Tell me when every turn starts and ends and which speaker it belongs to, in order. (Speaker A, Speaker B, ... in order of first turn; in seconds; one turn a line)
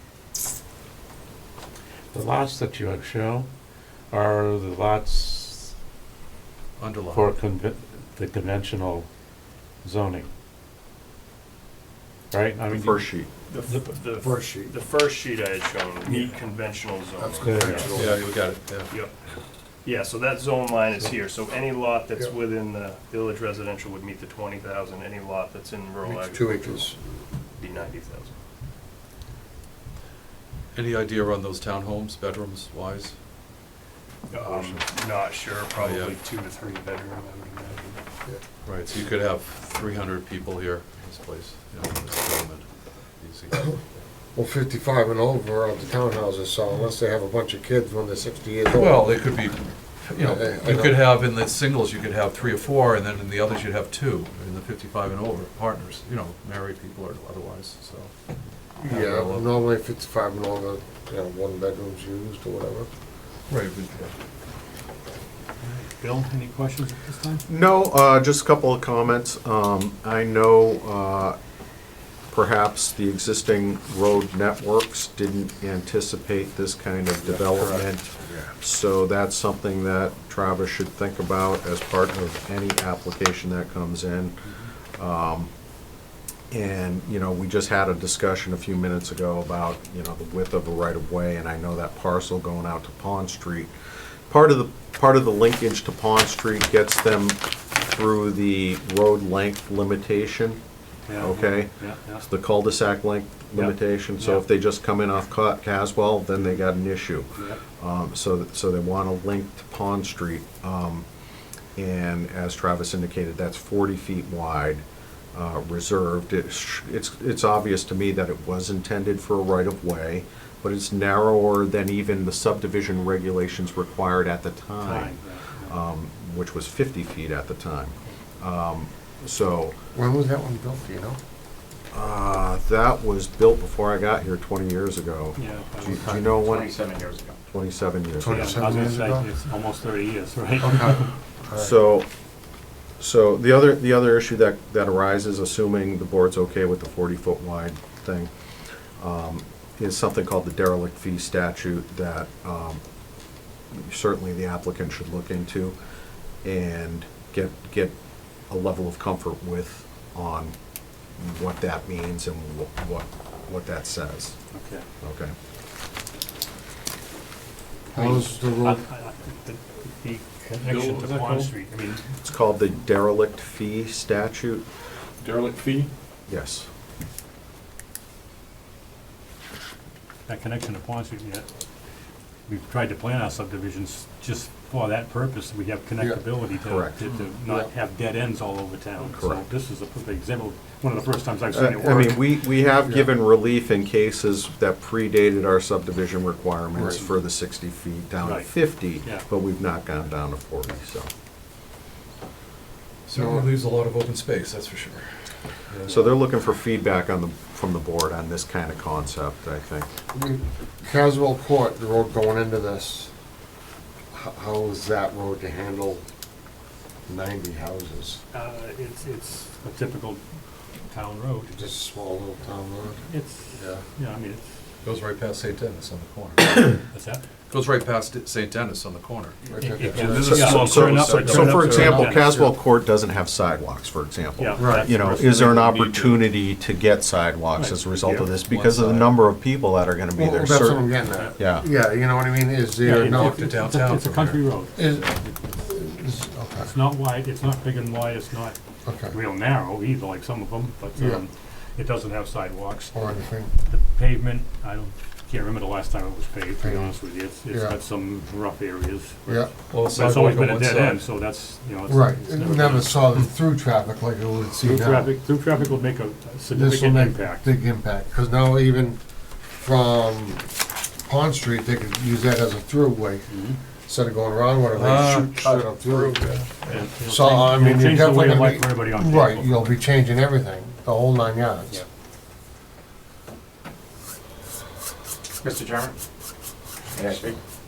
Speaker A: 2.1-3.5
Speaker A: 4.1-5.7
Speaker B: 6.8-7.4
Speaker A: 7.1-9.1
Speaker A: 9.8-10.3
Speaker A: 12.3-13.0
Speaker C: 12.7-13.3
Speaker D: 13.5-18.2
Speaker E: 14.2-14.7
Speaker E: 17.2-18.2
Speaker A: 17.4-17.9
Speaker B: 17.8-18.9
Speaker D: 19.8-27.0
Speaker E: 26.0-27.0
Speaker D: 27.5-28.4
Speaker B: 30.7-33.2
Speaker D: 34.3-38.0
Speaker B: 34.3-34.9
Speaker B: 35.7-36.2
Speaker B: 38.6-43.8
Speaker E: 44.3-49.3
Speaker B: 48.7-58.1
Speaker E: 50.1-51.0
Speaker E: 58.8-62.9
Speaker B: 58.9-59.5
Speaker B: 63.5-64.1
Speaker F: 65.6-67.4
Speaker C: 67.5-71.4
Speaker C: 72.3-85.5
Speaker C: 86.5-93.7
Speaker C: 94.3-100.6
Speaker F: 101.1-102.2
Speaker C: 101.2-111.1
Speaker F: 103.5-104.4
Speaker F: 107.3-107.6
Speaker C: 111.8-129.8
Speaker F: 124.8-125.8
Speaker E: 129.9-131.2
Speaker C: 131.9-136.9
Speaker F: 135.4-136.2
Speaker E: 135.8-136.3
Speaker G: 136.2-137.4
Speaker C: 137.5-138.8
Speaker E: 138.2-139.3
Speaker F: 138.3-141.2
Speaker E: 140.6-141.7
Speaker C: 141.6-142.1
Speaker C: 143.0-148.3
Speaker C: 149.0-152.8
Speaker C: 153.7-155.8
Speaker C: 156.4-157.9
Speaker C: 158.5-160.6
Speaker C: 161.2-164.4
Speaker F: 164.5-164.9
Speaker C: 165.0-165.3
Speaker E: 167.9-168.8
Speaker F: 167.9-172.1
Speaker B: 170.7-171.5
Speaker C: 172.3-174.7
Speaker B: 175.2-175.9
Speaker C: 176.3-176.7
Speaker F: 180.3-181.5
Speaker F: 182.5-192.2
Speaker C: 186.6-187.1
Speaker C: 189.1-189.4
Speaker C: 191.5-201.1
Speaker E: 192.8-193.1
Speaker E: 196.8-197.1
Speaker F: 198.2-199.3
Speaker B: 203.1-205.1
Speaker E: 203.2-203.5
Speaker B: 205.7-206.1
Speaker C: 205.9-209.9
Speaker E: 210.1-213.1
Speaker E: 214.1-216.0
Speaker E: 217.1-218.2
Speaker F: 218.3-220.2
Speaker F: 220.9-221.5
Speaker E: 221.5-223.0
Speaker F: 223.1-224.5
Speaker B: 223.5-223.8
Speaker B: 224.8-226.8
Speaker F: 226.8-227.2
Speaker B: 227.5-229.4
Speaker E: 229.5-232.5
Speaker F: 229.6-232.4
Speaker G: 229.8-231.5
Speaker B: 230.0-232.1
Speaker C: 230.2-240.8
Speaker F: 234.4-235.4
Speaker E: 234.6-234.9
Speaker G: 235.4-236.2
Speaker F: 237.6-238.3
Speaker B: 238.6-239.1
Speaker E: 240.2-243.4
Speaker C: 241.4-241.7
Speaker F: 242.8-244.8
Speaker B: 243.1-245.0
Speaker E: 244.8-246.7
Speaker F: 246.6-248.6
Speaker E: 248.9-249.2
Speaker F: 249.1-263.3
Speaker E: 250.9-251.2
Speaker E: 252.9-253.5
Speaker E: 256.6-256.9
Speaker E: 257.5-257.8
Speaker E: 259.3-259.5
Speaker B: 259.7-261.1
Speaker E: 261.9-265.1
Speaker F: 264.6-267.4
Speaker E: 266.5-281.8
Speaker F: 273.3-273.6
Speaker B: 274.7-275.8
Speaker F: 276.7-279.8
Speaker G: 285.4-286.0
Speaker G: 286.9-287.4